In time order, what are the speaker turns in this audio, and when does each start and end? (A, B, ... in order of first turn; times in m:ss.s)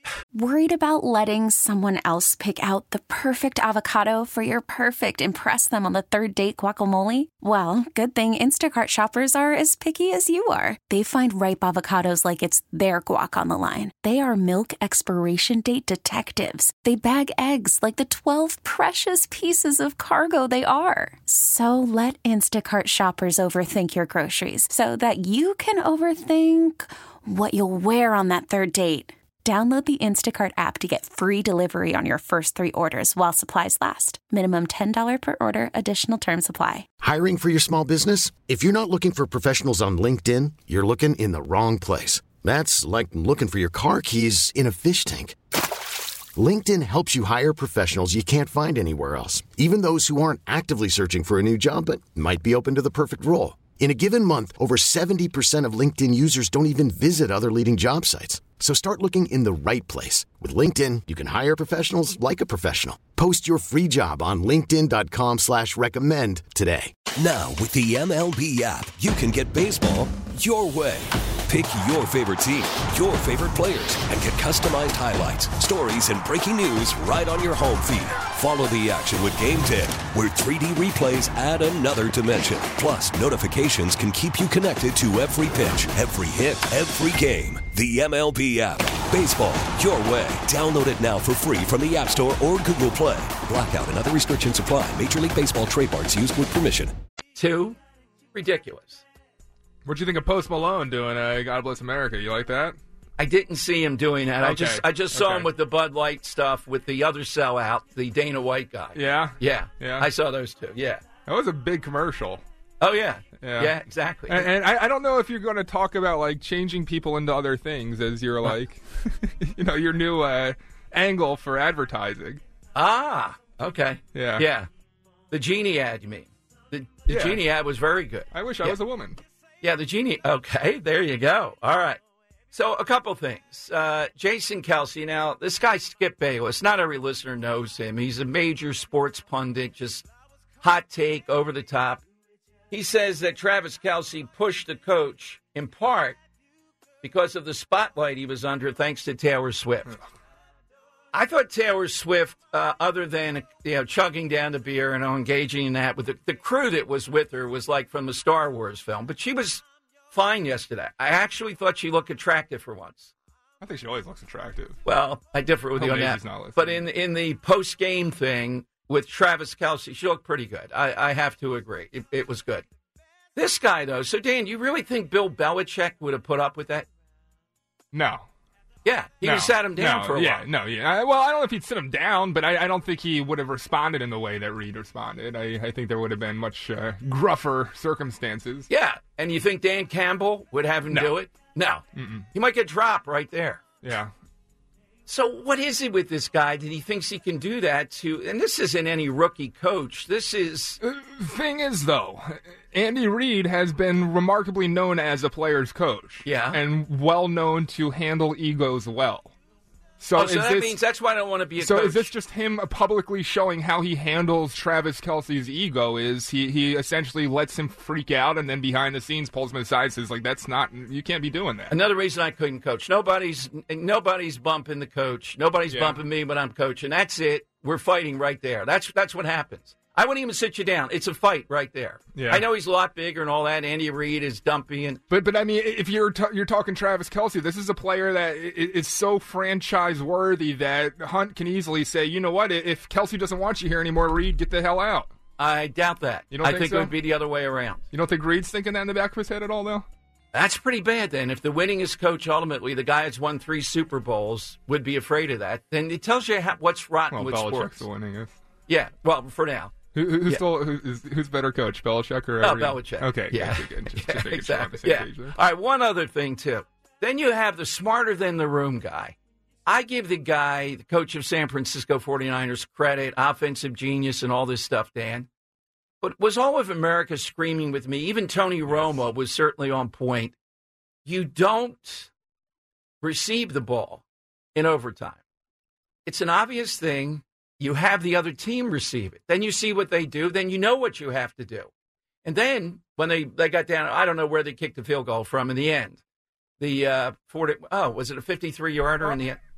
0:00.3-0:36.9 A
0:37.0-0:45.4 B
0:46.4-1:06.9 B
1:07.2-1:36.9 C
1:37.4-1:37.8 D
1:38.3-1:39.0 D
1:39.8-1:42.8 E
1:43.2-1:51.0 D
1:44.4-1:45.5 E
1:49.0-1:50.1 E
1:51.3-1:52.4 E
1:52.8-1:54.5 D
1:53.4-1:53.7 E
1:54.3-2:02.4 E
2:02.8-2:04.7 D
2:04.1-2:04.5 E
2:05.3-2:08.8 D
2:07.1-2:07.4 E
2:08.3-2:09.2 E
2:09.6-2:12.0 D
2:12.5-2:20.1 D
2:20.6-2:22.0 D
2:22.7-2:26.2 D
2:27.0-2:30.0 D
2:31.1-2:43.1 D
2:43.6-2:44.8 E
2:44.8-2:52.6 D
2:45.8-2:46.8 E
2:53.4-2:56.9 D
2:57.9-2:58.3 E
2:58.8-3:00.5 D
2:59.2-3:08.7 E
3:08.7-3:13.7 D
3:12.0-3:12.3 E
3:13.8-3:14.1 E
3:15.1-3:20.8 D
3:20.8-3:29.3 E
3:26.2-3:26.6 D
3:30.0-3:30.8 E
3:30.2-3:32.1 D
3:31.6-3:41.8 E
3:41.7-3:55.0 D
3:45.7-3:46.0 E
3:52.2-3:52.4 E
3:55.1-4:05.1 E
4:05.4-4:07.8 D
4:06.3-4:06.9 E
4:07.9-4:09.9 E
4:10.3-4:17.9 D
4:17.1-4:18.4 E
4:18.7-4:20.4 D
4:19.9-4:25.4 E
4:22.4-4:35.3 D
4:36.0-4:40.4 D
4:41.0-4:42.1 D
4:43.0-4:44.0 D
4:44.6-4:45.2 D
4:46.1-4:51.7 D
4:52.2-4:56.0 D
4:56.6-4:59.4 D